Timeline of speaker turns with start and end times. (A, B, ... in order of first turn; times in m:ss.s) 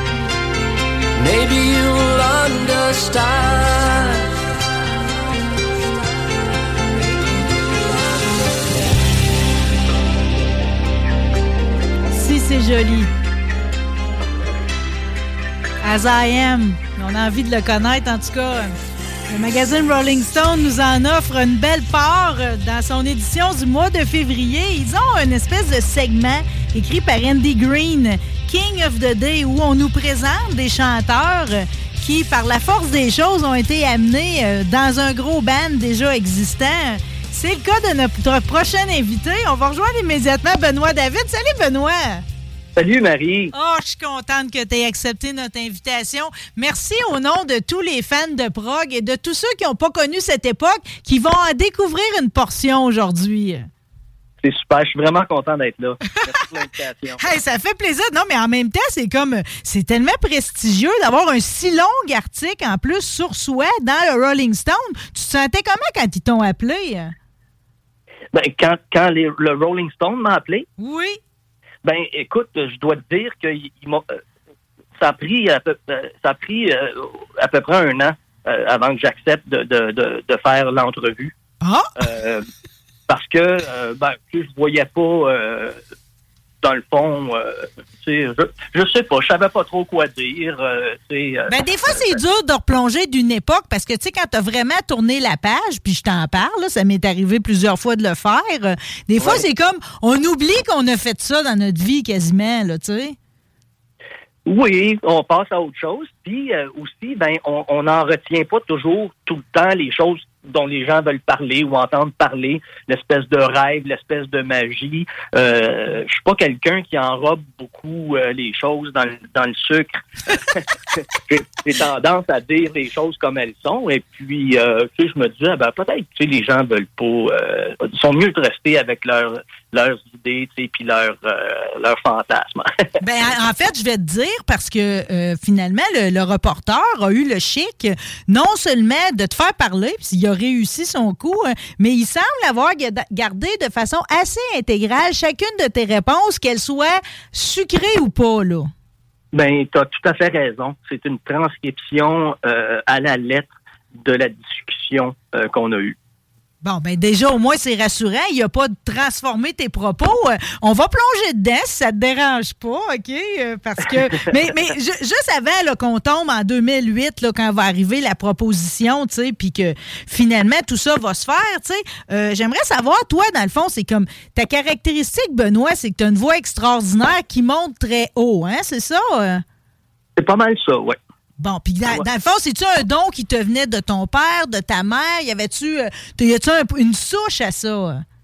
0:01.2-0:04.3 A
0:07.2-0:08.0 A
0:12.1-0:13.1 B
0:15.8-0:42.2 B
0:42.8-0:43.5 C
0:43.5-0:53.7 B
0:54.4-0:57.2 C
0:57.2-1:07.1 B
1:08.3-1:10.7 C
1:10.8-1:11.2 B
1:11.8-1:14.0 C
1:15.0-1:21.3 C
1:21.6-1:21.9 B
1:22.0-1:22.4 C
1:23.1-1:25.8 C
1:26.6-1:32.2 C
1:31.5-1:43.2 B
1:39.2-1:39.4 C
1:44.4-2:12.8 C
2:13.0-2:28.7 B
2:29.3-2:35.9 C
2:36.6-2:59.4 B
3:00.2-3:01.0 C
3:01.4-3:08.0 B